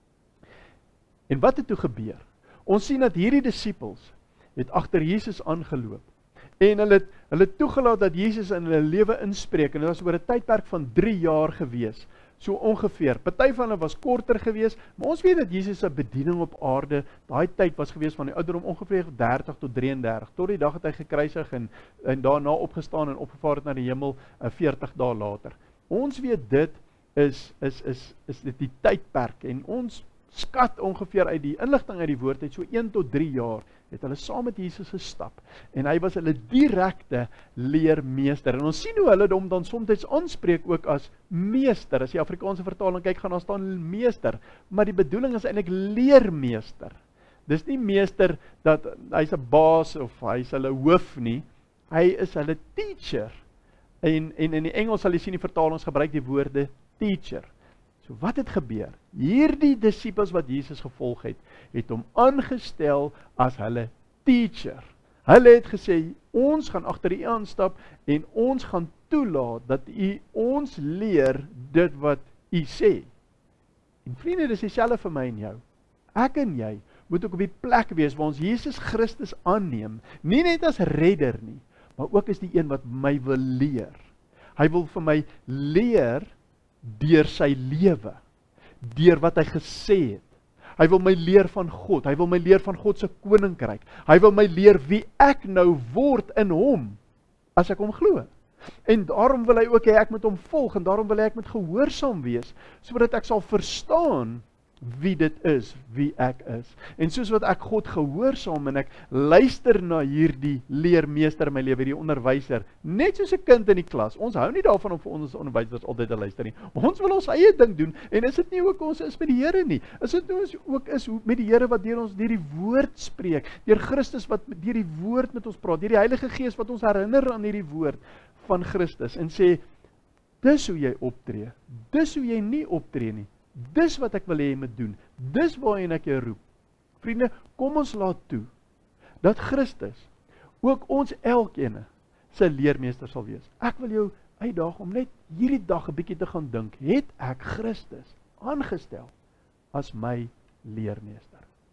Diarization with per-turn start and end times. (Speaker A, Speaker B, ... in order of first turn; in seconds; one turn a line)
Speaker A: 1.3-6.1
Speaker A: 6.6-53.4
Speaker A: 54.0-57.5
Speaker A: 58.0-73.1
Speaker A: 74.0-75.6
Speaker A: 76.1-84.0
Speaker A: 84.6-86.3
Speaker A: 86.8-88.2
Speaker A: 88.8-97.0
Speaker A: 97.6-98.3
Speaker A: 98.9-129.6
Speaker A: 130.4-136.4
Speaker A: 137.0-138.5
Speaker A: 139.2-140.1
Speaker A: 140.6-149.1
Speaker A: 149.7-151.5